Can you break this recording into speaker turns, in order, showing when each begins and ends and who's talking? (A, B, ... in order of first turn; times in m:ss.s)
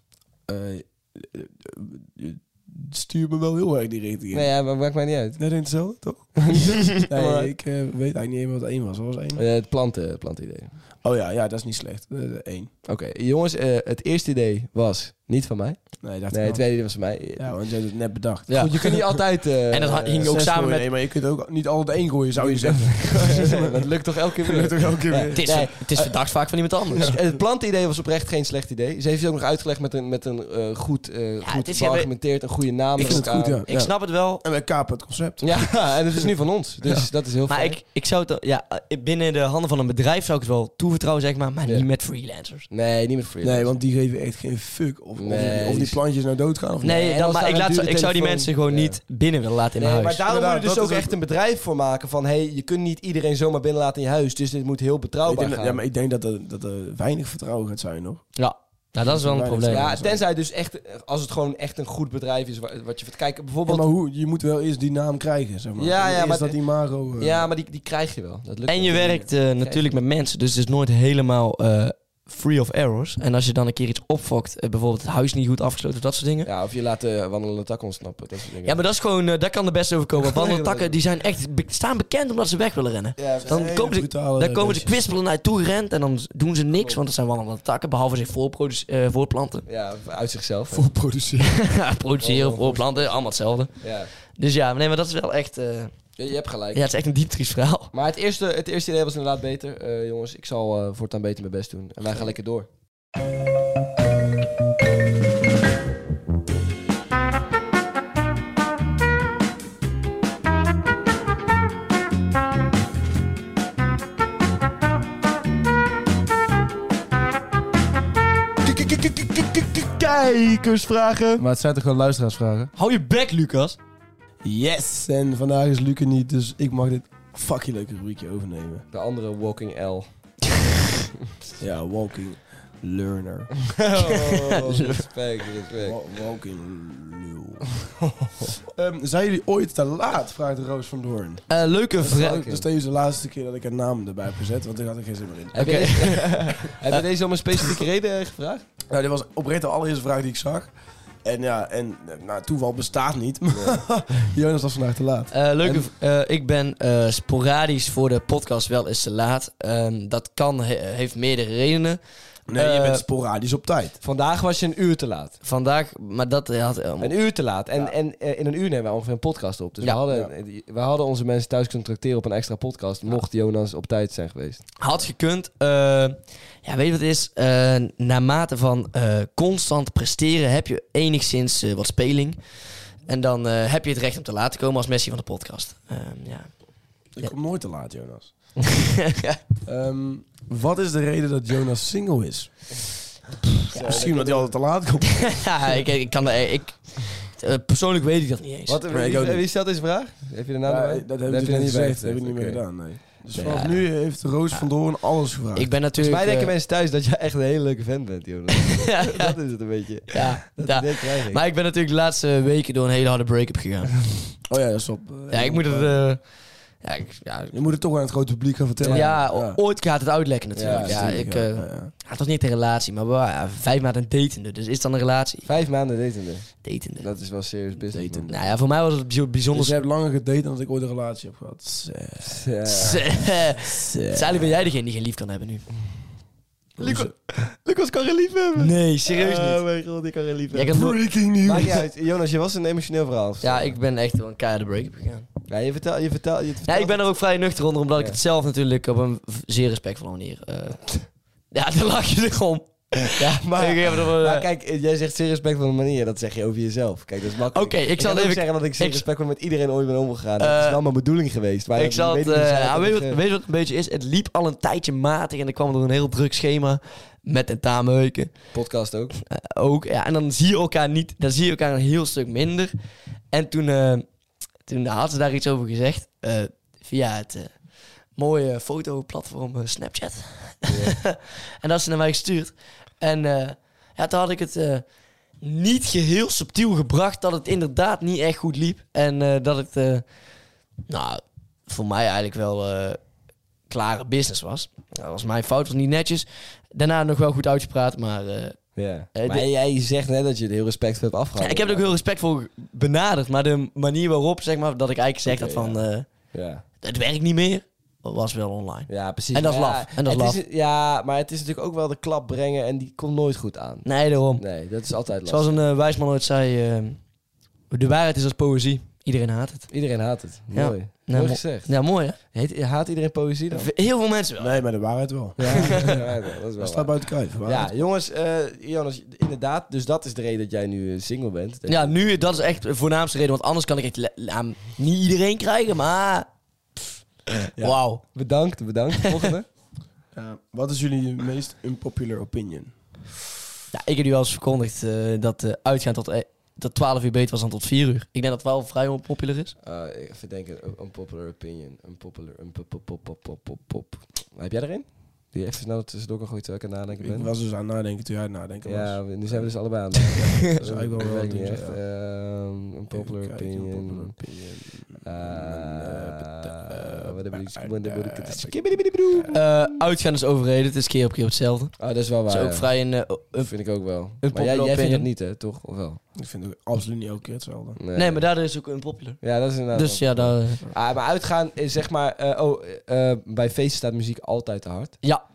0:00.5-0:04.5 A
0:04.3-0:05.4 B
0:05.4-0:09.4 A
0:06.5-0:07.5 B
0:09.3-0:10.7 B
0:11.0-0:12.7 A
0:12.8-0:17.5 B
0:16.0-0:18.8 A
0:18.5-0:20.9 C
0:18.5-0:20.4 B
0:20.2-0:23.9 A
0:22.4-0:26.3 B
0:24.4-0:25.7 A
0:25.3-0:27.1 C
0:26.9-0:33.6 B
0:31.4-0:32.1 C
0:33.0-0:36.2 A
0:33.0-0:34.4 C
0:35.4-0:37.8 B
0:37.5-0:42.7 C
0:42.7-0:43.7 B
0:43.4-0:47.1 A
0:45.2-0:46.0 B
0:46.8-0:50.2 C
0:46.9-0:49.0 B
0:49.8-0:55.8 B
0:50.2-0:51.1 A
0:55.2-0:58.2 A
0:58.3-0:59.9 C
0:59.0-1:00.2 A
0:59.7-1:03.9 B
1:03.7-1:07.5 A
1:05.8-1:06.6 B
1:07.2-1:09.8 B
1:08.7-1:16.5 C
1:16.4-1:18.8 B
1:18.6-1:29.6 C
1:20.2-1:21.0 B
1:23.2-1:23.7 B
1:23.4-1:24.9 A
1:26.7-1:27.0 B
1:29.6-1:30.9 B
1:30.7-1:31.6 A
1:31.4-1:33.8 C
1:32.2-1:34.1 B
1:34.3-1:36.0 C
1:36.2-1:36.8 B
1:36.7-1:37.9 C
1:37.9-1:42.7 B
1:58.7-2:01.4 B
2:01.4-2:02.7 A
2:02.8-2:03.8 C
2:04.4-2:08.8 A
2:08.9-2:10.0 B
2:11.6-2:13.6 A
2:13.8-2:16.0 B
2:14.0-2:15.0 C
2:15.8-2:17.8 A
2:18.2-2:18.5 B
2:18.7-2:21.4 A
2:21.5-2:22.4 C
2:22.0-2:26.1 A
2:22.0-2:22.6 B
2:25.5-2:28.6 B
2:25.5-2:26.7 C
2:28.9-2:35.3 A
2:33.5-2:33.8 B
2:35.3-2:43.0 C
2:35.6-2:35.9 B
2:42.5-2:44.0 A
2:44.0-2:45.3 B
2:45.4-2:47.1 C
2:47.0-2:54.6 B
2:54.8-3:02.4 C
3:03.0-3:06.5 C
3:07.1-3:08.3 A
3:08.7-3:09.4 C
3:09.6-3:12.8 A
3:13.7-3:15.8 A
3:13.7-3:14.1 C
3:13.8-3:14.5 B
3:15.2-3:18.8 C
3:18.7-3:22.6 B
3:18.9-3:19.4 A
3:20.6-3:25.7 A
3:23.2-3:23.8 B
3:23.4-3:23.8 C
3:25.5-3:26.5 C
3:26.0-3:31.4 B
3:28.6-3:29.4 C
3:30.1-3:34.0 C
3:34.5-3:36.0 A
3:35.3-3:37.5 C
3:37.5-3:39.6 A
3:38.8-3:39.1 B
3:38.8-3:45.5 C
3:40.5-3:41.2 B
3:40.6-3:41.9 A
3:45.4-3:48.3 B
3:46.6-3:47.1 C
3:47.9-3:48.4 A
3:48.3-3:49.8 C
3:49.5-3:52.4 A
3:52.2-3:53.0 B
3:52.7-3:55.7 C
3:53.7-3:54.5 A
3:56.8-3:57.1 A
3:56.8-4:00.7 B
3:58.6-3:59.6 C
4:00.5-4:01.0 C
4:00.7-4:01.8 A
4:01.4-4:03.7 B
4:03.4-4:05.3 C
4:05.5-4:07.0 B
4:06.6-4:14.5 C
4:13.2-4:23.2 B
4:17.5-4:19.0 C
4:20.4-4:20.8 C
4:21.7-4:28.4 C
4:28.5-4:29.2 B
4:29.2-4:32.7 C
4:33.3-4:34.0 C
4:34.6-4:44.8 C
4:40.7-4:41.0 B
4:45.4-4:50.1 C
4:50.9-4:53.0 C
4:53.7-4:59.4 C
4:58.8-5:01.9 B
5:01.4-5:06.1 C
5:05.2-5:06.6 B
5:06.8-5:10.4 C
5:08.9-5:15.6 B
5:13.8-5:14.6 C
5:15.2-5:17.0 C
5:17.7-5:19.8 C
5:19.7-5:23.7 B
5:20.5-5:22.2 C
5:23.5-5:24.6 C
5:24.4-5:26.0 A
5:25.4-5:32.1 B
5:25.5-5:26.0 C
5:26.6-5:27.7 A
5:31.7-5:36.2 C
5:37.6-5:38.0 C
5:38.0-5:39.5 B
5:39.0-5:39.2 C
5:40.1-5:42.7 A
5:43.7-5:49.5 C
5:49.6-5:57.3 B
5:57.0-6:01.8 A
5:58.6-6:04.1 B
6:02.9-6:08.5 A
6:05.0-6:09.6 B
6:09.3-6:13.5 C
6:11.8-6:12.7 B
6:13.4-6:16.0 B
6:14.2-6:15.1 C
6:16.2-6:17.8 A
6:17.8-6:18.2 B
6:17.9-6:20.7 C
6:19.2-6:25.0 B